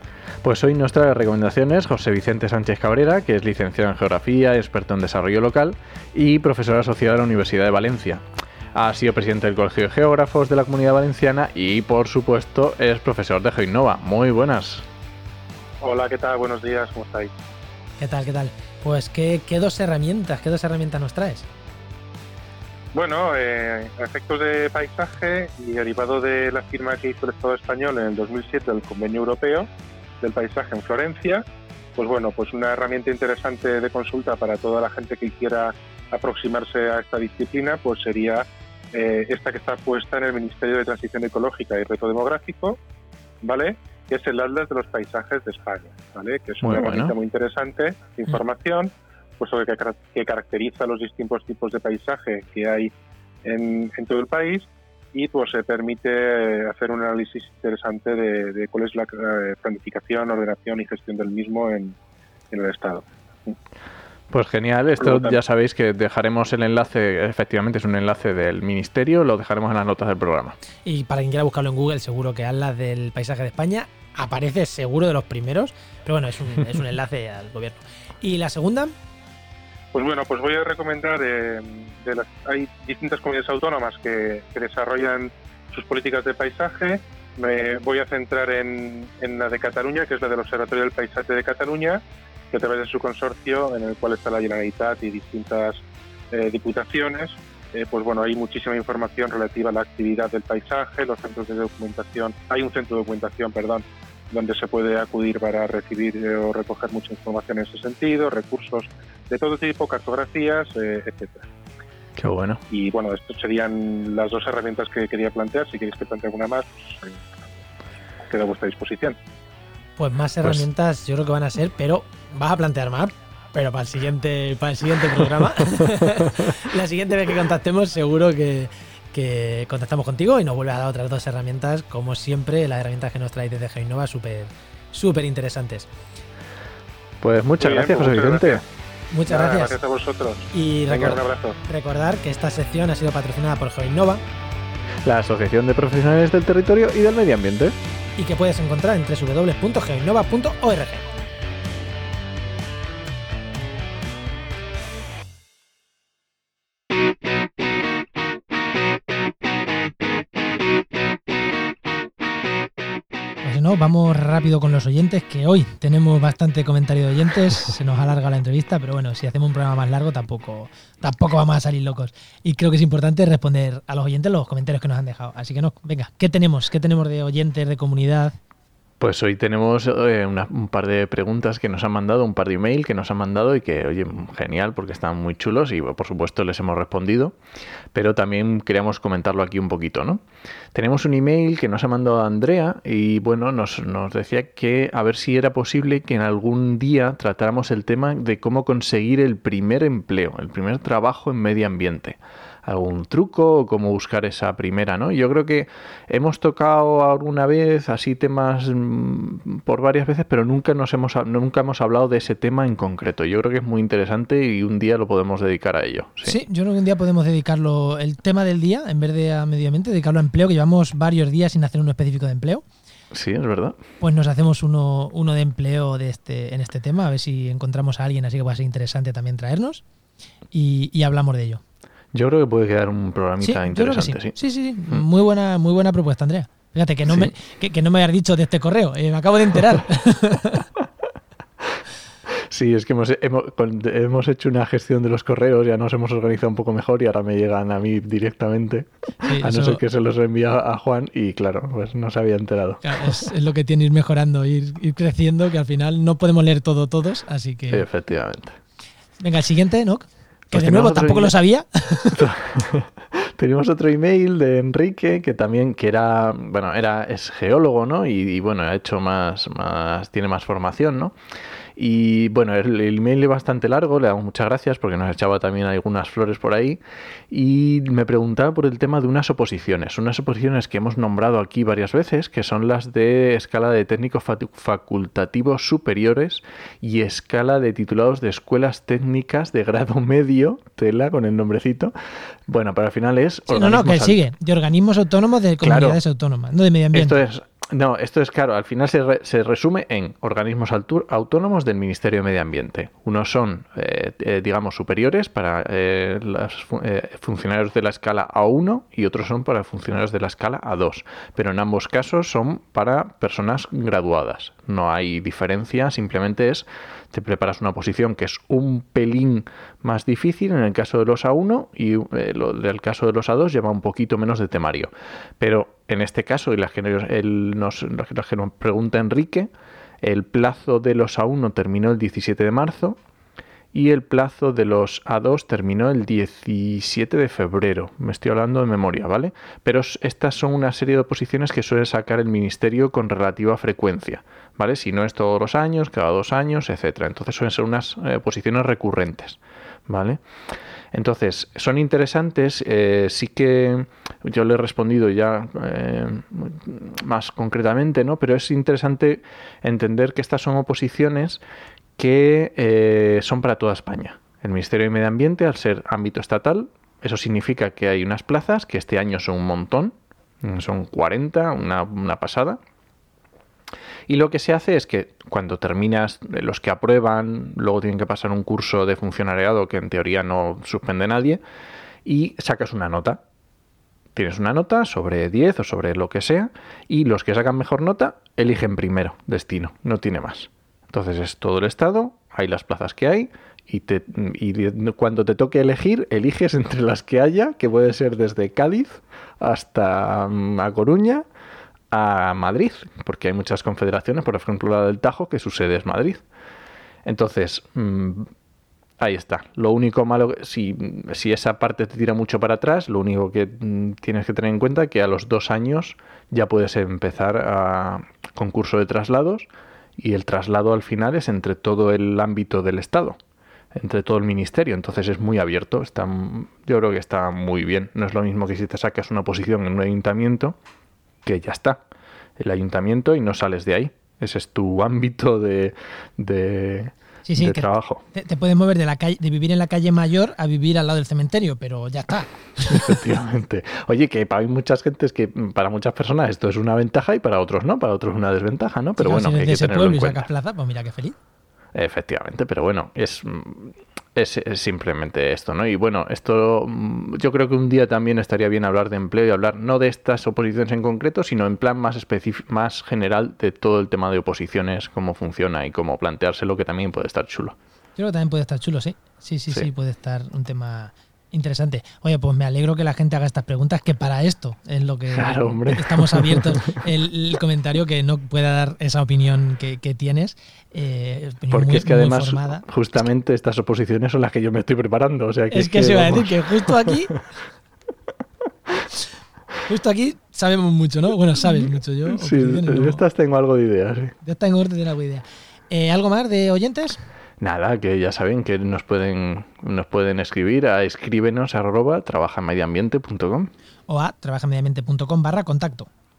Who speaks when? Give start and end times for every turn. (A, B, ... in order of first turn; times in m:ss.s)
0:00.4-0:14.9 A
0:15.8-0:17.3 B
0:18.0-0:21.4 C
0:22.9-0:29.7 B
0:30.2-0:31.4 B
0:31.9-0:42.8 B
0:43.4-0:52.9 B
0:46.6-0:47.2 A
0:53.4-1:02.0 B
1:02.5-1:03.5 B
1:04.3-1:10.6 A
1:05.0-1:05.4 B
1:10.8-1:18.9 C
1:19.9-1:51.5 B
1:52.2-1:52.6 A
1:52.7-1:57.2 B
1:58.2-1:59.2 B
2:00.0-2:15.9 C
2:17.2-2:18.6 A
2:17.6-2:18.6 B
2:19.1-2:19.7 C
2:19.3-2:21.6 B
2:20.5-2:24.2 C
2:25.0-2:27.7 A
2:28.2-2:31.1 C
2:43.4-2:58.4 C
2:59.0-3:07.3 A
3:07.9-3:36.4 A
3:36.2-3:42.6 C
3:43.1-3:43.8 A
3:44.0-3:49.8 C
3:50.5-3:51.6 C
3:52.1-3:54.4 A
3:53.4-4:00.6 C
4:02.5-4:13.2 A
4:09.2-4:09.8 C
4:12.8-4:17.8 C
4:17.7-4:18.6 A
4:19.2-4:22.3 C
4:20.5-4:21.3 A
4:22.1-4:31.2 A
4:31.8-4:51.9 A
4:52.5-4:54.2 A
4:53.5-4:57.2 C
4:55.6-4:56.0 A
4:56.9-5:29.5 A
5:30.0-5:33.0 A
5:33.7-5:50.2 A
5:50.9-6:01.4 A
6:02.0-6:12.6 A
6:14.1-6:21.4 A
6:22.0-6:23.2 A
6:24.1-6:41.2 A
6:41.9-6:46.2 A
6:47.0-6:48.3 A
6:49.0-7:03.2 A
7:03.7-7:10.5 A
7:11.2-7:11.8 A
7:12.4-7:18.0 A
7:17.2-7:23.0 C
7:22.7-7:30.3 A
7:29.0-7:31.1 C
7:31.7-7:47.6 A
7:48.0-8:02.6 C
7:55.1-7:56.7 A
8:01.5-8:07.2 A
8:05.5-8:07.1 C
8:09.6-8:13.0 C
8:12.1-8:14.1 A
8:14.2-8:17.0 C
8:17.4-8:23.5 A
8:23.9-8:25.9 C